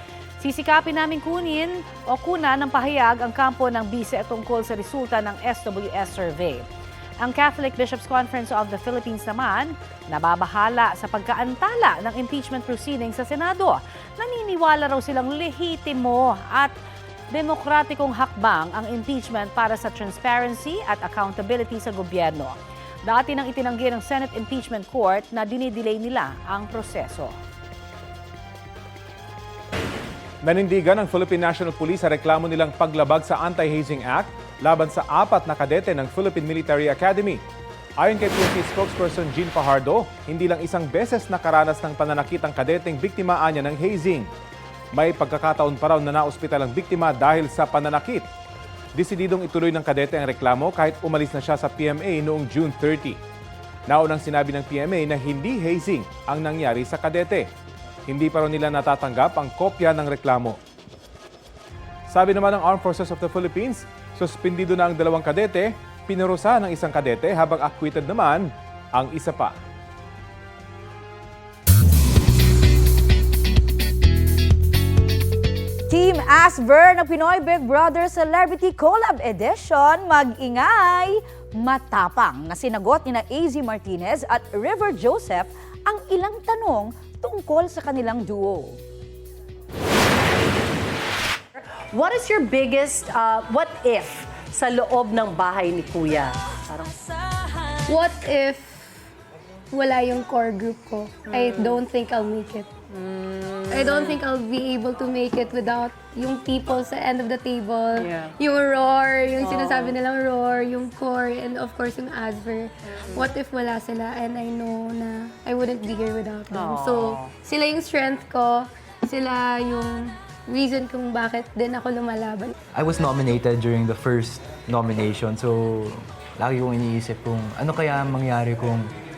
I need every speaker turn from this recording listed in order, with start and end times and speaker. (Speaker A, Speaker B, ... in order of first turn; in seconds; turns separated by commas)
Speaker A: 0.4-6.7, Speaker A: 7.2-16.7, Speaker A: 17.3-27.4, Speaker B: 30.4-37.4, Speaker B: 38.0-44.3, Speaker B: 44.9-48.3, Speaker B: 49.0-53.2, Speaker B: 53.9-57.5, Speaker B: 58.1-60.6, Speaker B: 62.1-69.6, Speaker C: 75.9-88.8, Speaker D: 91.6-97.0, Speaker E: 97.9-98.9, Speaker E: 99.7-102.7, Speaker D: 101.3-101.8, Speaker D: 102.9-104.2, Speaker E: 103.7-122.5, Speaker D: 108.0-108.3, Speaker D: 109.4-109.9, Speaker D: 116.5-117.3, Speaker F: 122.7-128.9